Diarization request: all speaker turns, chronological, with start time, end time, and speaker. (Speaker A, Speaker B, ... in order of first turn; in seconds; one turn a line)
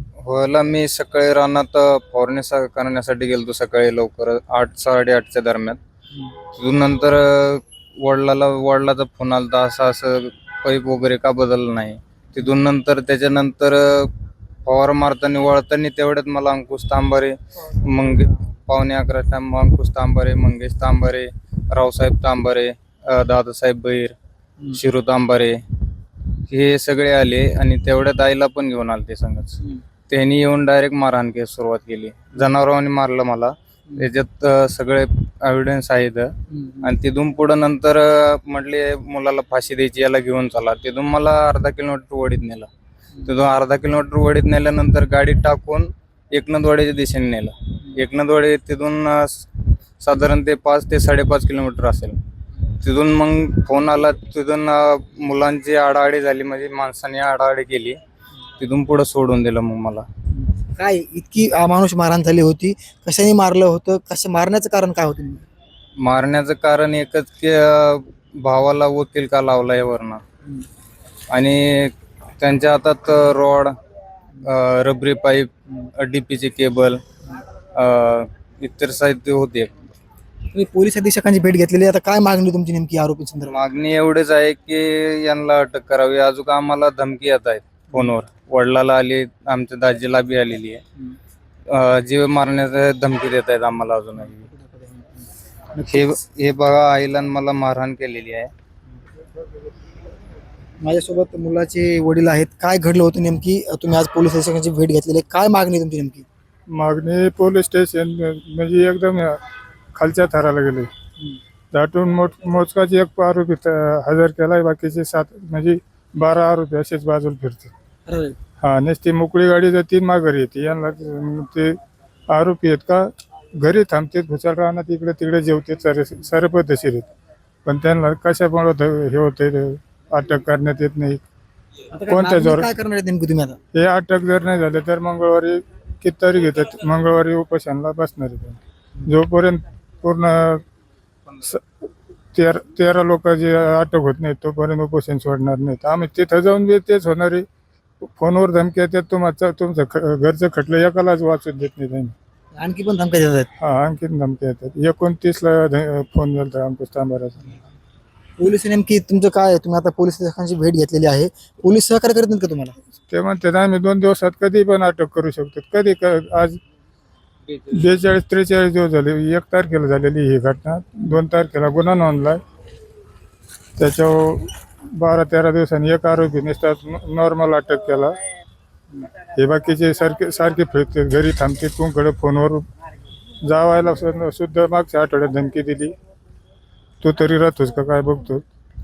Speaker A: 0.2-5.8
Speaker A: 6.5-14.1
Speaker A: 14.6-24.1
Speaker A: 24.7-25.6
Speaker A: 26.5-42.7
Speaker B: 36.5-36.9
Speaker A: 43.2-49.5
Speaker A: 50.0-52.2
Speaker A: 52.7-58.0
Speaker A: 58.6-60.1
Speaker B: 60.5-65.4
Speaker A: 66.0-70.2
Speaker A: 71.3-73.7
Speaker A: 74.4-77.0
Speaker A: 77.7-79.9
Speaker B: 80.5-83.6
Speaker A: 83.5-90.8
Speaker A: 91.7-94.5
Speaker B: 94.4-95.2
Speaker B: 95.8-96.1
Speaker A: 95.8-98.5
Speaker B: 100.8-106.2
Speaker C: 106.7-109.4
Speaker C: 109.9-110.9
Speaker C: 111.7-117.7
Speaker B: 118.1-118.3
Speaker C: 118.6-121.8
Speaker C: 122.3-123.1
Speaker C: 123.6-127.1
Speaker C: 127.6-131.2
Speaker B: 131.9-133.6
Speaker C: 132.1-132.7
Speaker C: 133.7-140.6
Speaker C: 141.4-141.6
Speaker C: 142.3-147.4
Speaker C: 148.0-152.1
Speaker B: 152.5-153.5
Speaker C: 153.6-157.6
Speaker B: 158.4-162.7
Speaker C: 163.1-166.6
Speaker C: 167.7-172.4
Speaker C: 173.8-178.2
Speaker C: 179.3-182.6
Speaker C: 183.4-185.9
Speaker C: 187.0-188.4